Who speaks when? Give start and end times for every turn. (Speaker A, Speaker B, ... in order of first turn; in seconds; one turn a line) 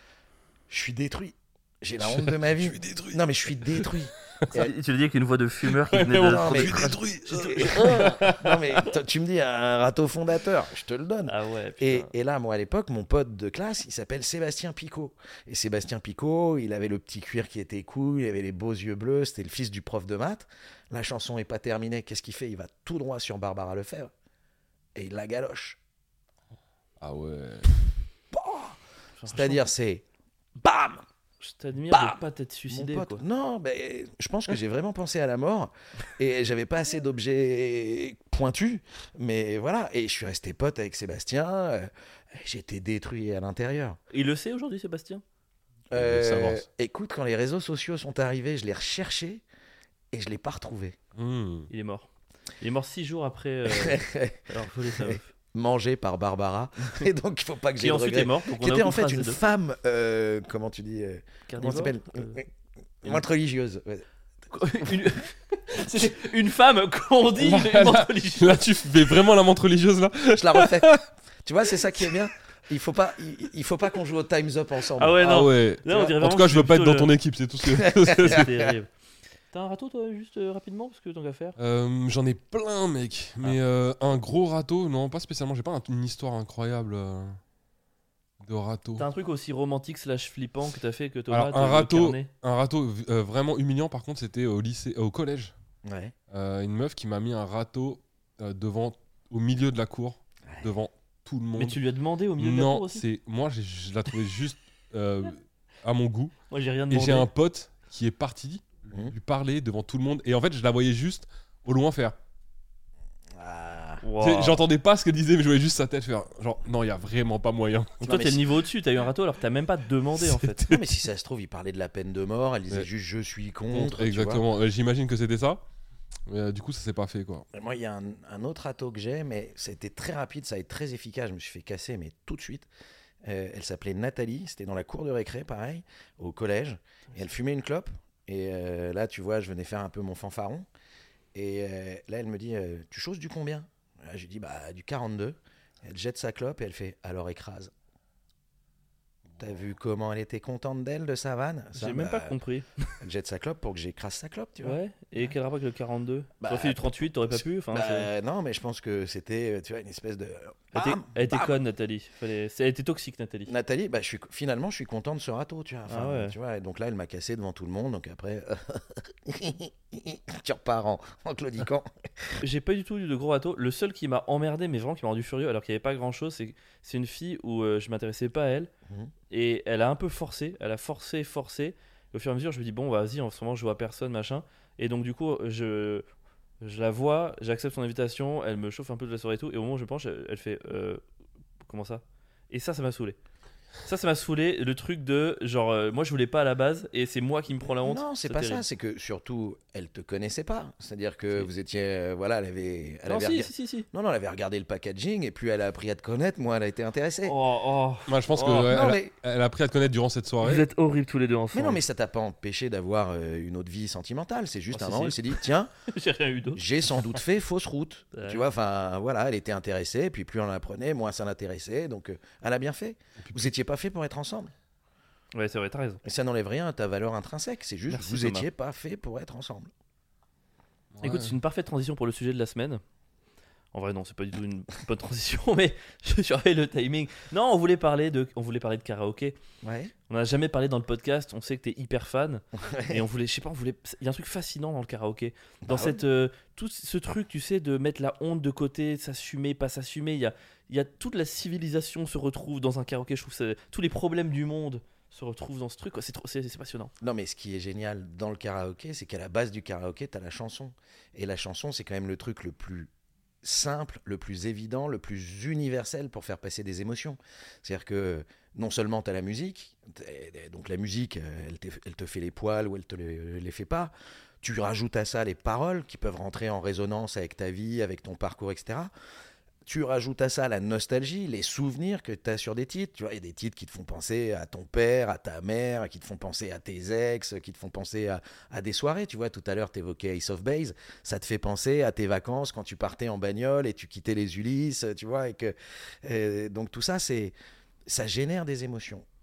Speaker A: 0.7-4.7
Speaker B: 2.0-4.5
Speaker C: 4.5-8.2
Speaker B: 5.7-8.8
Speaker A: 6.2-24.1
Speaker C: 11.3-12.1
Speaker A: 24.9-25.8
Speaker B: 27.0-27.7
Speaker A: 28.3-30.0
Speaker C: 29.2-29.6
Speaker A: 30.6-31.0
Speaker C: 31.4-33.2
Speaker A: 31.9-44.0
Speaker C: 44.1-45.2
Speaker A: 45.9-49.4
Speaker C: 46.0-46.6
Speaker A: 50.1-51.0
Speaker B: 51.1-51.7
Speaker C: 51.7-52.1
Speaker C: 52.6-55.3
Speaker A: 53.6-62.5
Speaker C: 57.8-59.4
Speaker C: 61.5-62.4
Speaker A: 63.0-64.0
Speaker C: 64.5-68.6
Speaker B: 67.4-71.0
Speaker A: 70.3-70.9
Speaker A: 71.4-75.2
Speaker C: 75.0-77.1
Speaker B: 75.2-78.5
Speaker A: 77.6-78.7
Speaker C: 78.1-78.9
Speaker C: 79.5-81.5
Speaker B: 81.6-87.4
Speaker B: 88.4-89.0
Speaker C: 89.0-92.3
Speaker B: 91.3-95.5
Speaker A: 95.8-96.1
Speaker B: 96.3-101.8
Speaker C: 101.5-103.0
Speaker B: 102.4-106.3
Speaker C: 106.5-107.3
Speaker B: 106.9-112.1
Speaker A: 113.3-114.0
Speaker C: 114.0-114.6
Speaker B: 114.2-118.2
Speaker C: 118.0-120.8
Speaker A: 118.0-118.4
Speaker B: 120.2-120.8
Speaker A: 120.6-124.4
Speaker B: 123.7-125.6
Speaker B: 126.3-127.5
Speaker A: 127.5-132.7
Speaker A: 133.2-140.7
Speaker A: 141.3-147.7
Speaker A: 149.4-152.4
Speaker C: 151.7-152.9
Speaker A: 153.0-154.8
Speaker C: 154.6-158.1
Speaker A: 156.4-161.6
Speaker C: 160.7-163.5
Speaker A: 163.5-172.4
Speaker C: 165.9-166.3
Speaker C: 172.4-178.7
Speaker A: 178.9-179.1
Speaker C: 179.3-186.0
Speaker C: 186.6-191.0
Speaker C: 191.7-193.2
Speaker C: 193.8-198.6
Speaker A: 197.8-207.4
Speaker C: 203.1-203.9
Speaker C: 207.2-208.7
Speaker B: 208.1-210.7
Speaker A: 208.7-209.1
Speaker C: 210.4-211.8
Speaker A: 211.5-215.7
Speaker C: 214.7-216.6
Speaker A: 216.5-224.5
Speaker C: 218.1-218.4
Speaker B: 223.2-223.5
Speaker C: 225.3-226.0
Speaker A: 226.0-229.7
Speaker C: 227.9-228.5
Speaker B: 230.9-231.3
Speaker C: 231.0-232.8
Speaker C: 233.7-239.4
Speaker A: 239.6-239.9
Speaker C: 240.1-256.9
Speaker A: 242.6-243.0
Speaker A: 245.6-246.0
Speaker A: 257.0-262.9
Speaker A: 263.4-278.9
Speaker A: 279.6-297.3
Speaker A: 297.9-299.1